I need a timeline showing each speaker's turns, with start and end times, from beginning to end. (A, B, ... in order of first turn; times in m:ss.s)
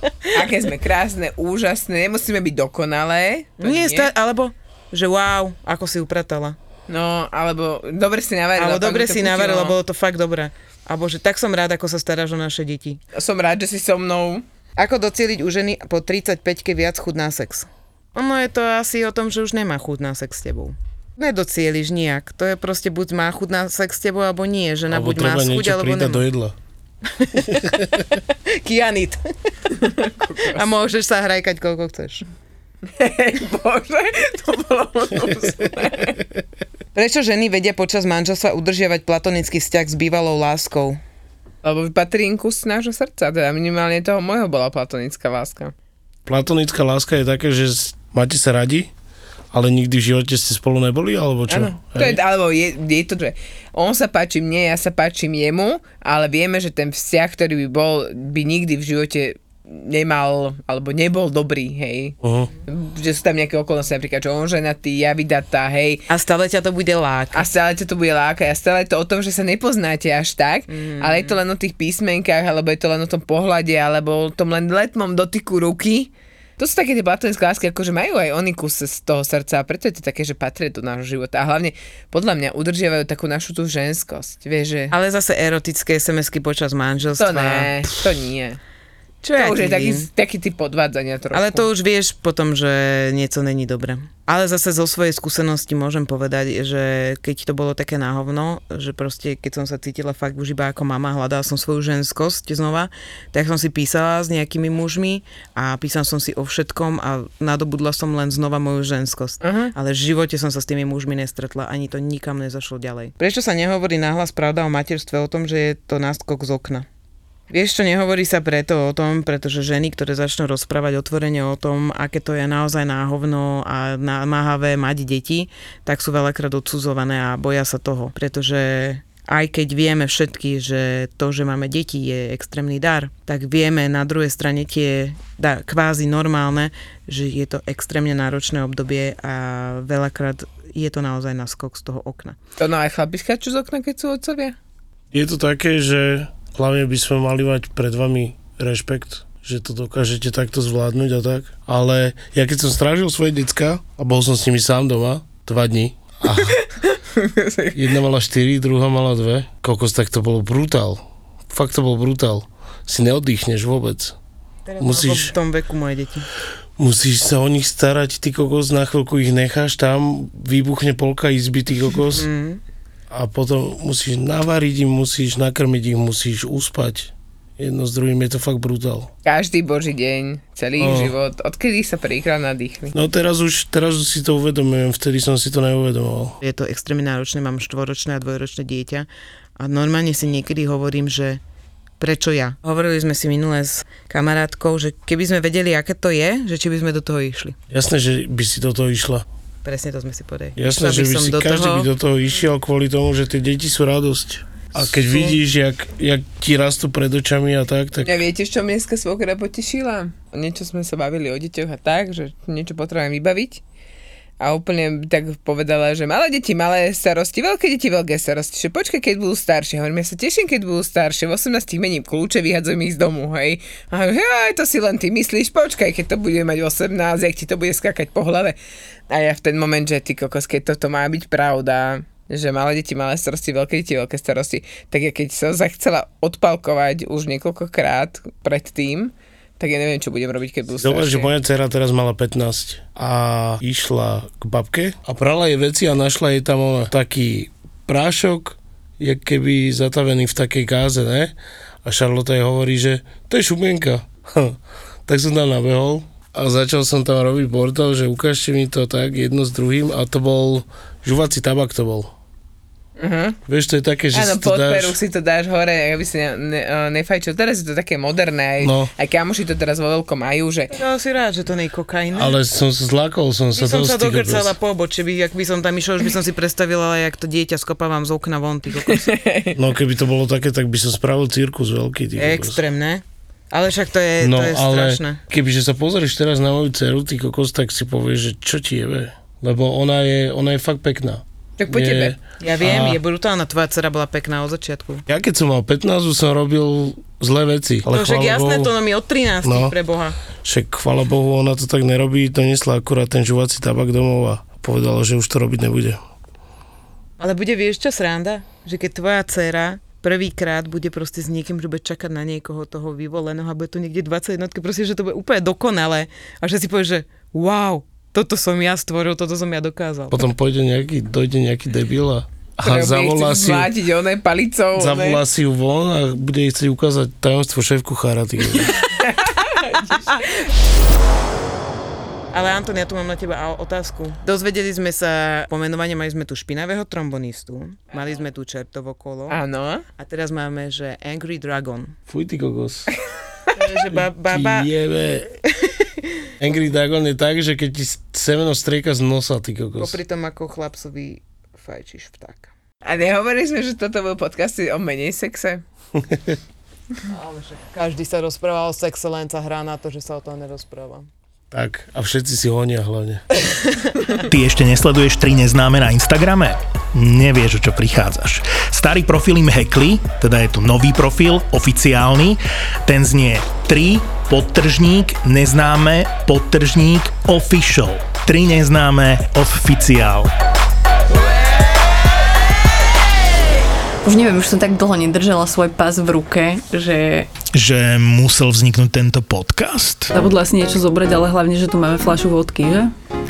0:00.3-0:04.1 A
0:03.6-0:06.6 B
0:06.9-0:09.8 A
0:08.6-0:13.0 B
0:13.1-0:14.4 A
0:14.8-0:26.2 B
0:24.9-0:26.6 C
0:27.1-0:29.2 B
0:27.5-0:27.8 C
0:30.0-0:30.6 A
0:30.5-0:32.2 B
0:33.0-0:36.2 A
0:36.9-0:41.0 B
0:41.6-0:45.7 A
0:46.2-0:48.9 C
0:49.5-0:52.2 C
0:51.5-1:06.1 A
1:02.2-1:02.5 C
1:06.1-1:07.5 B
1:07.3-1:24.9 A
1:10.7-1:11.4 B
1:24.9-1:27.8 B
1:27.2-1:28.6 A
1:29.2-1:30.1 B
1:29.4-1:31.7 A
1:31.3-1:56.8 B
1:49.4-1:49.7 A
1:57.5-2:22.4 B
2:22.6-2:24.6 A
2:25.1-2:36.6 C
2:36.5-2:37.8 A
2:37.7-2:44.2 C
2:44.7-2:46.3 B
2:44.8-2:45.4 C
2:46.8-2:52.3 C
2:52.1-2:52.6 B
2:53.1-2:59.1 C
2:59.2-3:02.9 A
3:00.8-3:01.1 C
3:02.9-3:06.4 C
3:06.4-3:09.1 B
3:09.6-3:11.4 B
3:12.0-3:17.6 B
3:17.7-3:19.2 C
3:19.6-3:21.9 B
3:20.6-3:28.2 C
3:24.8-3:25.4 B
3:28.0-3:33.6 A
3:34.4-3:48.6 A
3:49.1-4:01.3 A
4:00.7-4:22.1 C
4:23.0-4:23.4 A
4:23.5-4:25.0 C
4:24.1-4:30.8 A
4:28.6-4:28.9 C
4:30.7-4:32.4 B
4:32.1-4:34.6 C
4:33.5-4:39.1 B
4:38.9-4:39.6 A
4:39.5-4:42.6 C
4:42.2-4:45.2 B
4:44.2-4:53.0 C
4:51.6-4:52.2 A
4:52.4-4:55.0 B
4:55.1-4:58.7 C
4:57.9-5:00.2 B
4:59.4-4:59.7 C
5:00.4-5:06.0 C
5:07.2-5:20.2 B
5:20.1-5:23.7 C
5:22.6-5:25.2 A
5:24.7-5:28.8 C
5:28.7-5:30.3 A
5:32.3-5:39.4 B
5:39.3-5:39.8 A
5:40.0-5:42.0 B
5:42.1-5:42.9 C
5:43.6-5:44.7 B
5:43.8-5:45.4 C
5:45.6-5:46.3 B
5:46.4-5:50.0 C
5:49.8-5:52.5 B
5:52.8-5:55.6 A
5:56.0-5:56.4 C
5:57.1-6:01.1 B
6:01.5-6:03.2 C
6:03.6-6:04.2 B
6:04.2-6:20.3 D
6:24.0-6:27.3 E
6:27.5-6:30.1 D
6:30.1-6:32.9 F